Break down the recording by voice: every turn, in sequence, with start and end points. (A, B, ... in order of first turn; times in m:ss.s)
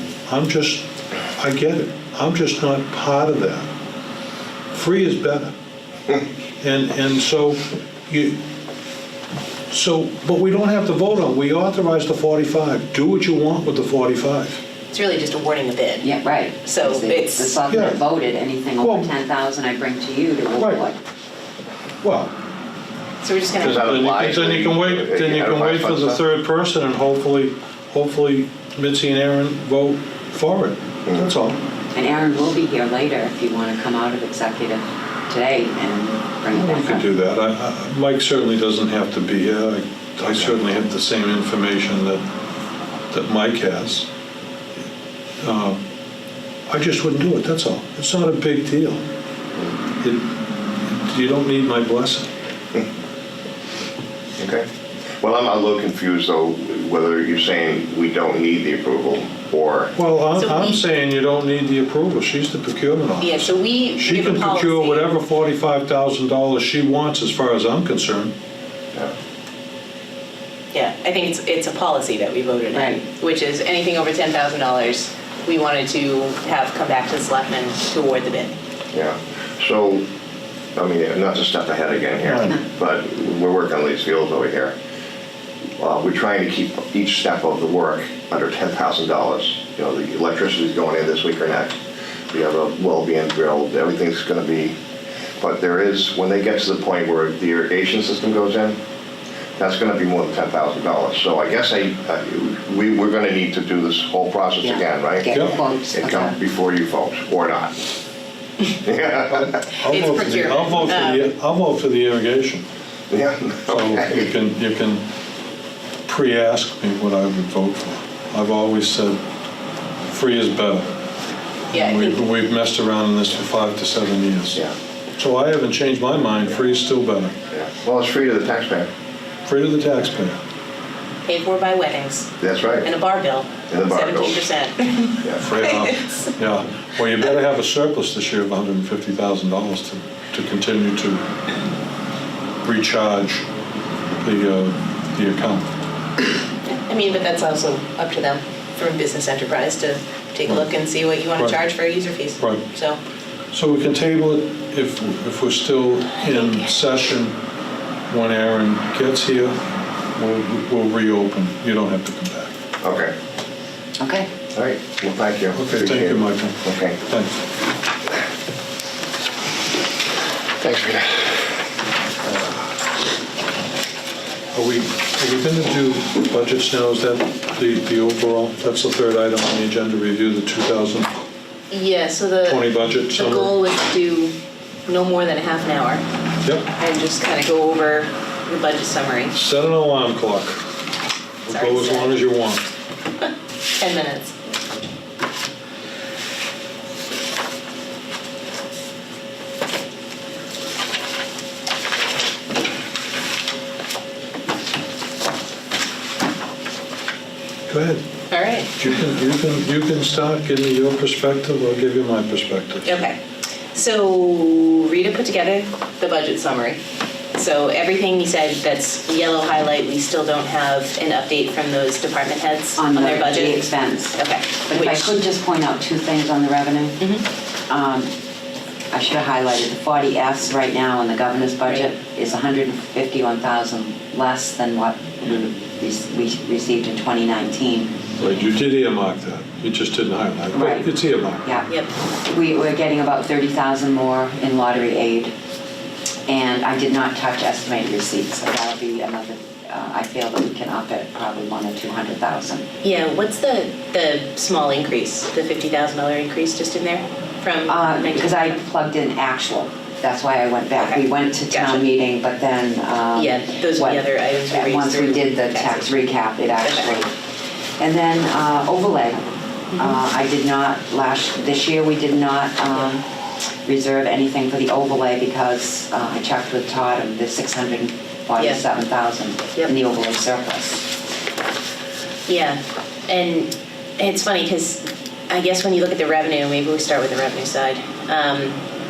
0:00.3-0:03.7 A
0:04.7-0:05.5 A
0:06.6-0:08.4 A
0:09.7-0:14.6 A
0:14.9-0:16.1 B
0:16.0-0:21.0 C
0:16.6-0:17.6 B
0:17.7-0:18.0 A
0:18.8-0:19.1 A
0:20.6-0:20.8 A
0:22.0-0:22.3 A
0:23.2-0:23.9 B
0:23.6-0:26.2 D
0:23.6-0:31.6 A
0:31.9-0:37.1 C
0:36.5-0:42.2 A
0:43.1-0:44.1 A
0:45.4-0:45.8 A
0:46.7-0:49.0 A
0:50.9-0:52.3 A
0:54.4-0:54.7 D
0:55.2-0:59.9 D
1:00.0-1:08.3 A
1:00.3-1:00.8 B
1:03.2-1:05.1 B
1:10.7-1:18.6 B
1:12.7-1:13.0 C
1:18.9-1:20.0 D
1:20.8-1:24.8 D
1:22.2-1:22.6 A
1:25.8-1:31.8 D
1:32.3-1:34.8 D
1:35.4-1:38.8 D
1:39.6-1:47.8 D
1:44.6-1:46.4 C
1:45.3-1:45.6 A
1:48.8-1:49.6 D
1:49.3-1:52.7 A
1:49.8-1:51.3 B
1:53.1-1:54.3 D
1:53.7-1:55.0 A
1:56.1-1:59.2 A
2:00.1-2:00.9 A
2:01.7-2:02.2 B
2:01.7-2:07.4 A
2:07.5-2:08.9 D
2:09.5-2:10.4 A
2:11.2-2:12.3 B
2:12.4-2:12.9 D
2:12.8-2:16.3 B
2:13.7-2:14.5 D
2:15.4-2:21.3 A
2:22.6-2:23.4 A
2:24.2-2:25.7 A
2:26.9-2:33.0 B
2:33.5-2:37.4 A
2:36.2-2:36.7 B
2:38.1-2:39.6 A
2:40.2-2:42.5 A
2:42.8-2:43.1 D
2:44.0-2:44.3 C
2:44.6-2:47.0 D
2:45.5-2:47.4 A
2:50.6-2:51.4 D
2:54.5-3:01.1 A
3:01.7-3:04.4 B
3:02.4-3:03.6 A
3:04.9-3:06.0 B
3:06.4-3:06.7 A
3:06.8-3:09.4 B
3:09.3-3:10.6 A
3:11.5-3:12.6 A
3:11.5-3:12.2 B
3:13.8-3:14.4 B
3:27.7-3:28.0 A
3:28.3-3:28.7 B
3:28.8-3:32.9 A
3:32.8-3:33.2 B
3:33.7-3:36.8 B
3:37.4-3:45.2 B
3:42.8-3:47.1 C
3:47.0-3:47.3 B
3:47.7-3:48.1 C
3:48.9-3:58.0 C
3:51.7-3:51.9 B
3:58.2-4:01.5 A
4:00.5-4:01.7 C
4:01.7-4:01.9 B
4:02.3-4:05.3 C
4:06.3-4:12.7 C
4:12.8-4:18.6 B
4:17.7-4:27.1 C
4:20.8-4:21.8 B
4:23.1-4:26.0 B
4:26.6-4:27.0 B
4:27.8-4:33.0 C
4:29.7-4:30.0 B
4:33.6-4:40.9 C
4:38.4-4:38.6 B
4:42.3-4:48.6 B